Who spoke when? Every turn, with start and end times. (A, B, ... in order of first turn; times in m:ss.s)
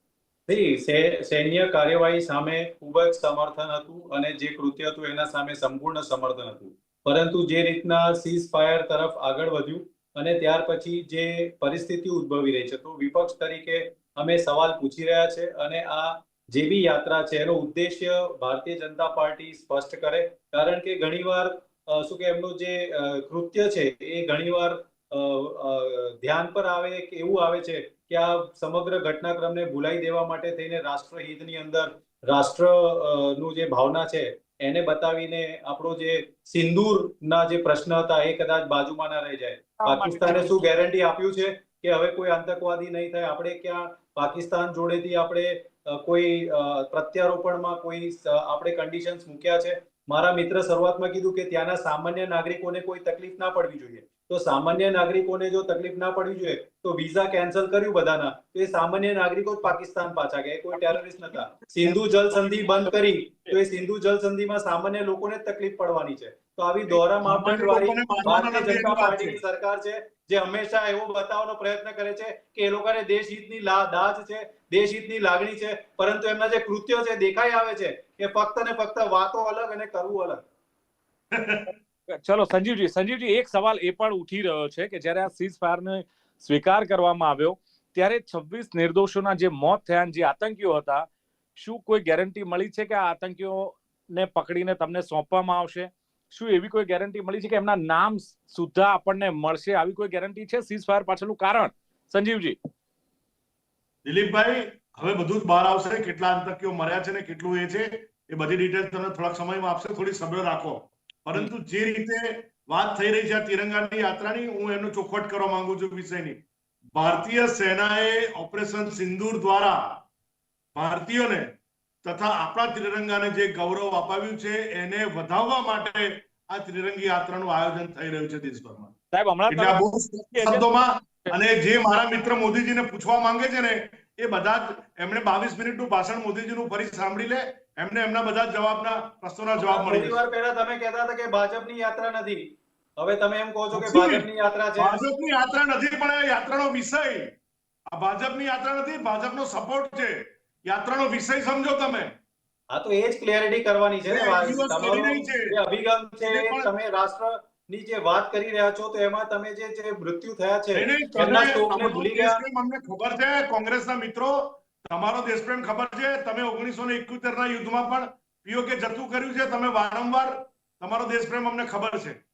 0:00.5-1:20.4 A
0:39.8-0:40.6 B
1:07.2-1:09.4 C
1:21.3-1:21.7 C
1:22.1-1:31.1 B
1:31.6-1:42.6 B
1:44.0-1:56.4 C
1:56.9-2:00.0 C
2:00.7-2:01.5 C
2:02.0-2:08.9 C
2:09.1-2:09.8 B
2:09.5-2:20.2 C
2:10.3-2:10.7 B
2:19.6-2:25.0 A
2:23.7-2:24.3 C
2:24.8-2:27.3 C
2:27.9-2:32.2 C
2:32.7-2:42.4 A
2:34.1-2:35.6 C
2:36.2-2:36.7 C
2:40.7-2:52.2 C